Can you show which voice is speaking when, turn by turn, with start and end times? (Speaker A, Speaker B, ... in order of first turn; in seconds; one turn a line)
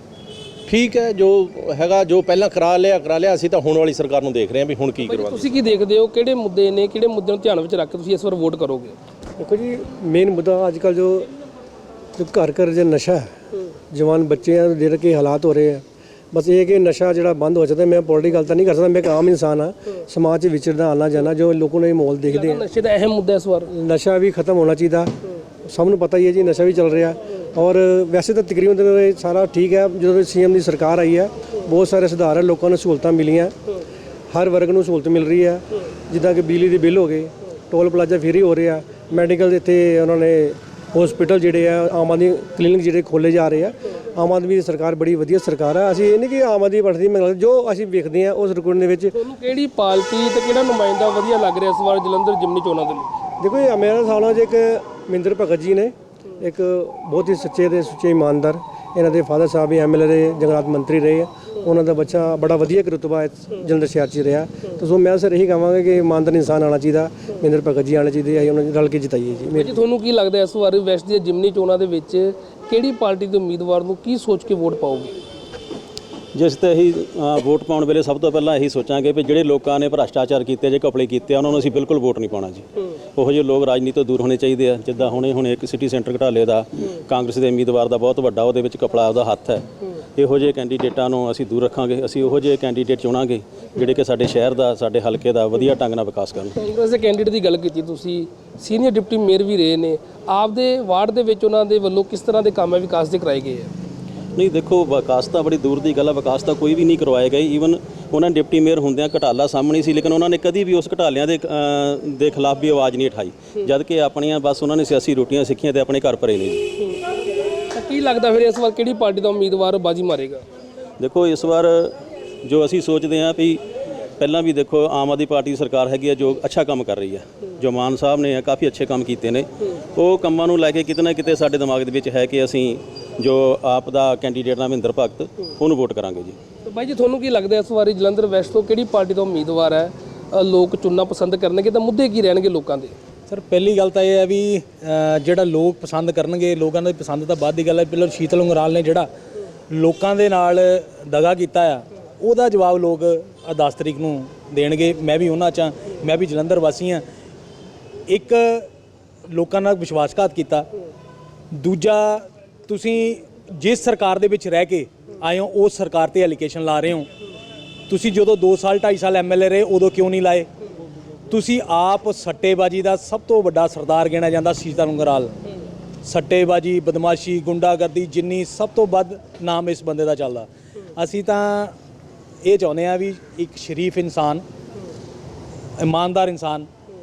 Speaker A: 0.7-5.5
Speaker B: 5.0-8.9
Speaker C: 9.4-11.3
Speaker C: 12.2-13.2
Speaker C: 13.9-22.6
Speaker B: 22.3-23.7
Speaker C: 23.7-25.1
Speaker C: 25.6-33.5
Speaker C: 34.3-49.1
Speaker B: 49.1-53.1
Speaker C: 53.4-69.8
Speaker B: 69.5-75.1
Speaker D: 76.3-89.6
Speaker D: 90.2-96.5
Speaker B: 96.5-103.7
Speaker D: 104.3-116.6
Speaker B: 117.7-120.4
Speaker D: 121.0-123.6
Speaker D: 124.2-136.4
Speaker B: 136.6-142.9
Speaker E: 143.3-149.1
Speaker E: 149.7-157.0
Speaker E: 158.1-158.7
Speaker E: 159.3-160.7
Speaker E: 161.5-167.1
Speaker E: 167.9-170.5
Speaker E: 171.3-175.3
Speaker E: 176.0-181.7
Speaker E: 182.4-184.4
Speaker E: 185.8-186.7